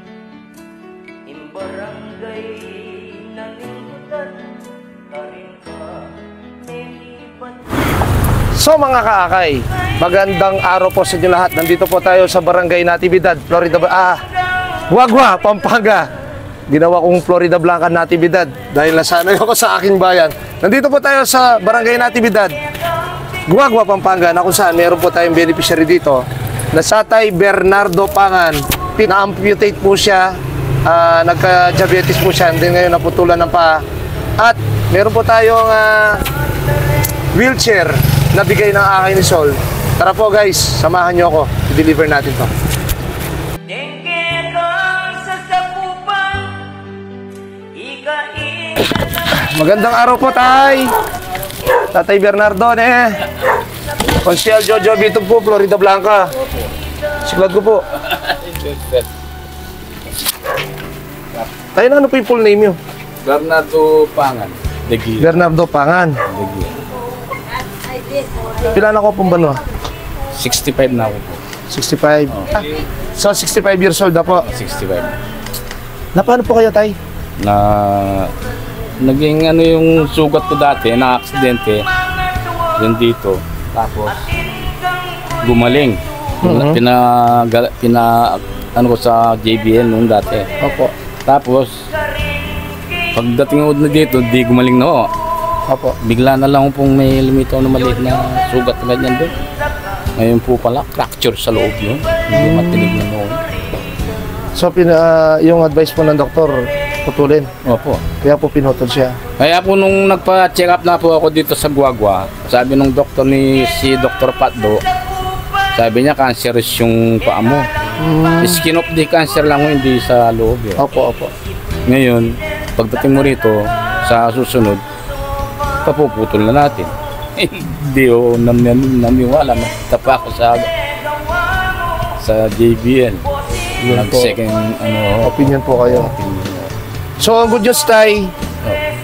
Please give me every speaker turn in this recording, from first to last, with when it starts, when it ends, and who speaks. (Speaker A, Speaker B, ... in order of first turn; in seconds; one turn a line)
Speaker A: 1.3-4.5
Speaker A: 5.1-6.1
Speaker A: 6.7-7.6
Speaker B: 8.5-14.2
Speaker B: 14.9-16.1
Speaker B: 16.7-22.6
Speaker B: 23.5-33.8
Speaker B: 34.4-36.2
Speaker B: 37.3-42.5
Speaker A: 43.7-46.7
Speaker A: 47.7-49.0
Speaker B: 49.3-51.0
Speaker B: 51.9-53.2
Speaker B: 54.2-56.4
Speaker B: 57.2-57.8
Speaker C: 58.0-59.1
Speaker B: 61.7-62.8
Speaker C: 63.2-65.4
Speaker B: 65.2-66.2
Speaker C: 66.2-66.8
Speaker B: 68.6-69.6
Speaker C: 70.3-71.4
Speaker B: 71.7-74.5
Speaker C: 72.3-72.6
Speaker C: 74.4-75.2
Speaker B: 76.1-77.0
Speaker C: 77.4-78.3
Speaker C: 79.0-81.8
Speaker C: 82.8-84.2
Speaker C: 85.4-90.5
Speaker B: 86.4-86.8
Speaker B: 90.6-90.9
Speaker C: 91.2-91.8
Speaker C: 93.1-95.1
Speaker B: 95.7-96.0
Speaker C: 96.0-99.3
Speaker C: 100.2-103.4
Speaker B: 102.3-103.0
Speaker B: 104.5-107.5
Speaker C: 107.6-108.0
Speaker B: 108.2-109.2
Speaker C: 109.4-114.8
Speaker C: 115.7-117.7
Speaker B: 118.0-118.6
Speaker C: 118.4-120.8
Speaker B: 120.8-121.3
Speaker C: 121.8-124.8
Speaker C: 125.8-130.7
Speaker C: 132.2-133.2
Speaker B: 133.8-134.4
Speaker C: 133.9-136.7
Speaker B: 135.2-136.1
Speaker B: 137.2-138.3